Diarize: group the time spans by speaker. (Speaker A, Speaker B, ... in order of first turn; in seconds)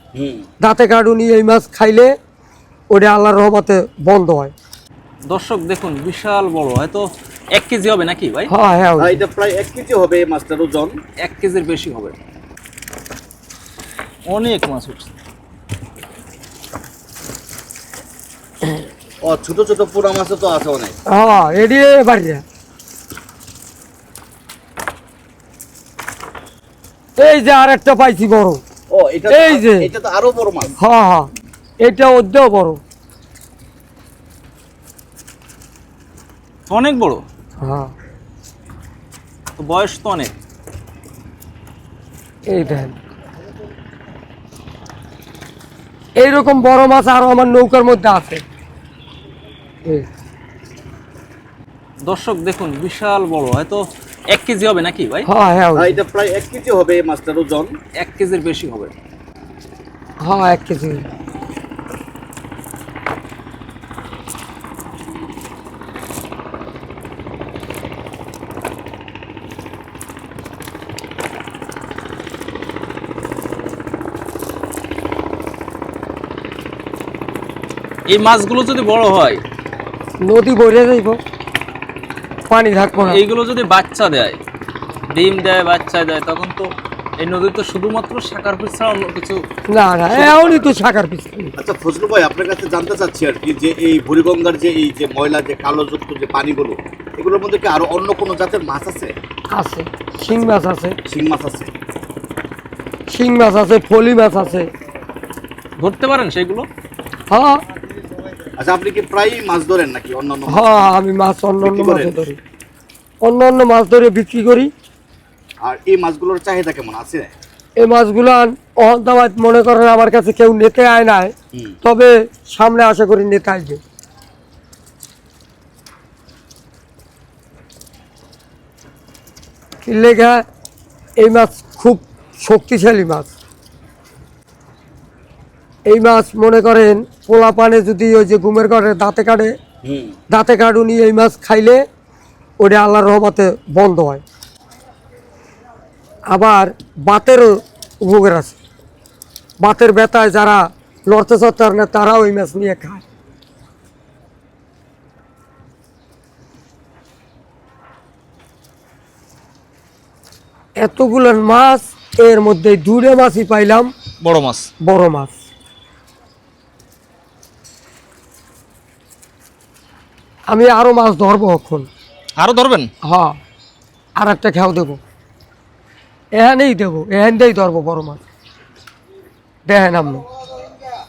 Speaker A: 0.1-0.5, 9.0-11.0, 19.2-21.0, 28.9-30.8, 55.8-57.8, 90.2-90.6, 91.6-99.2, 101.1-101.7, 108.6-110.9, 111.6-112.3, 115.6-117.3, 139.8-140.2
Speaker B: 0.6-2.1, 2.9-4.5, 8.5-9.2, 21.1-22.4, 27.2-28.6, 29.3-29.9, 30.8-31.3, 31.8-32.8, 37.6-37.9, 42.5-43.0, 46.2-48.4, 55.2-56.0, 60.2-61.0, 80.2-81.2, 82.5-83.2, 89.7-91.5, 99.5-101.0, 103.1-104.7, 107.3-107.6, 110.5-112.4, 113.2-114.7, 117.8-123.8, 129.8-130.4, 131.2-133.3, 135.9-139.5, 140.3-141.8, 142.6-144.2, 146.3-148.6, 149.6-153.0, 160.8-163.9, 164.8-165.4, 170.5-171.9, 173.0-173.4, 174.2-175.0, 176.3-178.2, 179.7-180.2
Speaker C: 5.3-8.5, 11.2-12.2, 14.3-15.1, 36.7-37.2, 39.6-40.3, 52.0-55.3, 58.0-58.9, 78.1-79.4, 83.0-84.4, 85.1-89.4, 105.8-106.7, 164.2-164.7, 172.4-172.9